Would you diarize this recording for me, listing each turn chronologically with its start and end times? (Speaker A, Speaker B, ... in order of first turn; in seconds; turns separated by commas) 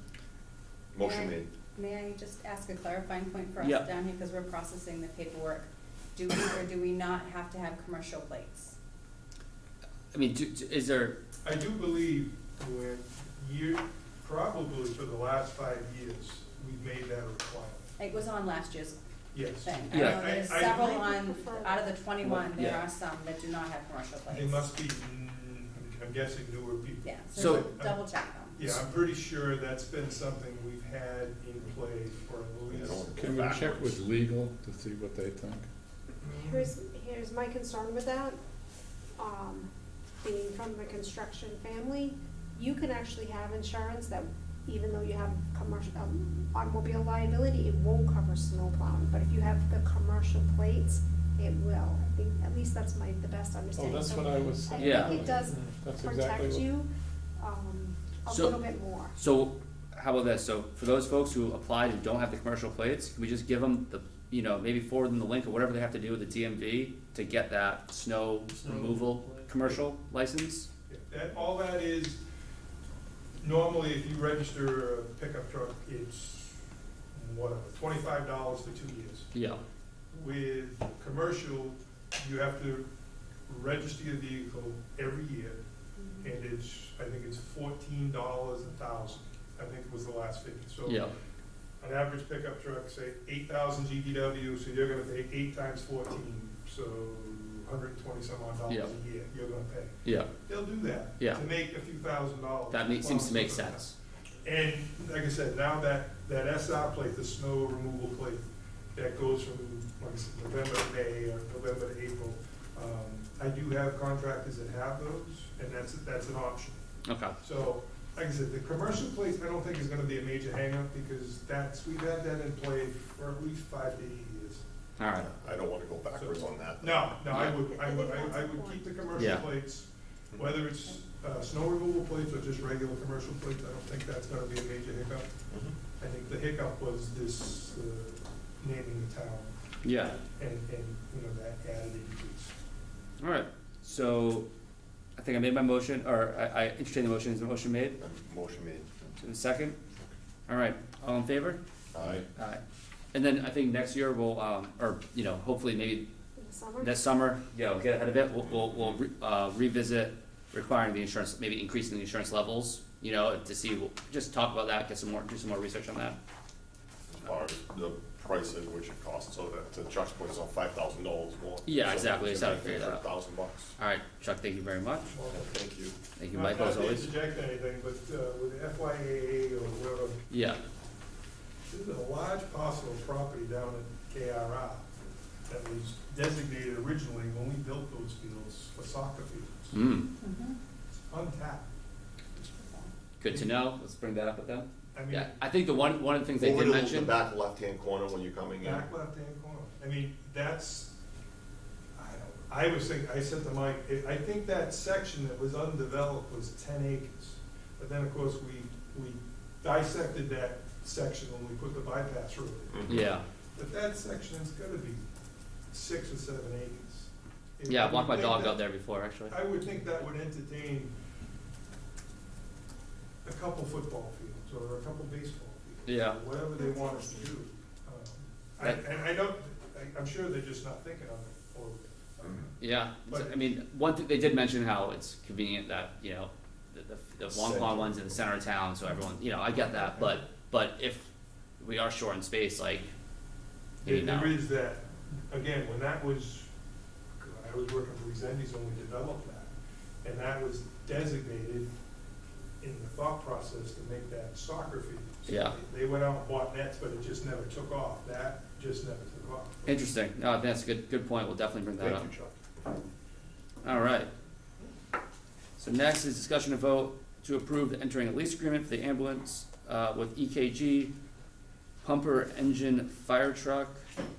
Speaker A: 0.9-1.5, Speaker B: 1.0-8.8, Speaker C: 3.6-3.9, Speaker C: 10.1-11.2, Speaker D: 11.4-18.2, Speaker B: 18.0-19.0, Speaker D: 19.3-21.0, Speaker B: 19.6-24.7, Speaker C: 19.9-20.4, Speaker E: 20.5-22.0, Speaker C: 22.2-22.8, Speaker D: 24.3-28.0, Speaker B: 27.0-28.8, Speaker C: 27.4-27.7, Speaker D: 28.5-33.0, Speaker A: 32.7-34.0, Speaker F: 33.1-35.7, Speaker D: 36.2-36.7, Speaker E: 36.3-38.4, Speaker E: 39.2-39.7, Speaker E: 40.2-56.9, Speaker F: 53.8-56.7, Speaker C: 54.8-55.2, Speaker E: 57.4-59.2, Speaker C: 58.3-70.7, Speaker D: 70.9-72.2, Speaker D: 73.4-76.6, Speaker D: 77.1-79.3, Speaker C: 79.3-79.6, Speaker D: 80.1-82.9, Speaker D: 83.5-85.6, Speaker D: 86.2-91.1, Speaker C: 90.8-91.1, Speaker D: 91.8-103.9, Speaker C: 100.0-100.3, Speaker C: 102.7-104.0, Speaker D: 104.4-108.4, Speaker D: 109.0-116.8, Speaker C: 117.1-117.3, Speaker D: 117.4-124.7, Speaker C: 125.0-125.3, Speaker A: 125.2-127.1, Speaker D: 126.1-135.3, Speaker C: 127.3-127.6, Speaker E: 127.7-129.1, Speaker C: 129.2-129.5, Speaker A: 135.5-135.8, Speaker D: 136.0-139.5, Speaker C: 139.8-140.2, Speaker D: 140.1-142.5, Speaker C: 143.2-144.5, Speaker C: 145.2-148.0, Speaker A: 148.0-149.2, Speaker C: 149.2-149.8, Speaker C: 150.5-151.6, Speaker A: 151.9-152.3, Speaker C: 152.4-152.6, Speaker C: 153.1-156.1, Speaker E: 156.4-157.0, Speaker C: 156.8-166.2, Speaker A: 167.1-173.7, Speaker C: 171.7-173.1, Speaker C: 173.8-175.1, Speaker D: 175.1-175.6, Speaker A: 175.3-176.0, Speaker C: 176.2-177.1, Speaker D: 176.3-180.2, Speaker C: 180.3-180.6, Speaker D: 181.7-184.9, Speaker D: 185.5-189.8, Speaker C: 189.7-190.1, Speaker B: 190.2-190.6, Speaker D: 191.1-191.7, Speaker B: 192.4-192.9, Speaker C: 193.2-197.2, Speaker D: 193.3-193.6, Speaker D: 194.9-195.4, Speaker A: 196.4-198.9, Speaker D: 198.6-200.9, Speaker D: 202.0-212.9, Speaker A: 212.7-213.1, Speaker C: 212.9-213.2, Speaker D: 213.6-215.0, Speaker D: 215.7-218.6, Speaker C: 217.7-219.4, Speaker D: 219.3-220.9, Speaker D: 223.2-233.5, Speaker C: 225.9-226.2, Speaker E: 226.6-227.4, Speaker C: 232.6-242.9, Speaker A: 237.3-238.1, Speaker C: 243.8-244.4, Speaker D: 243.8-246.5, Speaker D: 247.2-249.5, Speaker D: 250.0-251.7, Speaker D: 252.6-259.8, Speaker C: 255.3-255.5, Speaker C: 259.7-262.1, Speaker A: 261.8-262.3, Speaker C: 263.6-264.1, Speaker C: 265.6-270.9, Speaker C: 271.8-273.8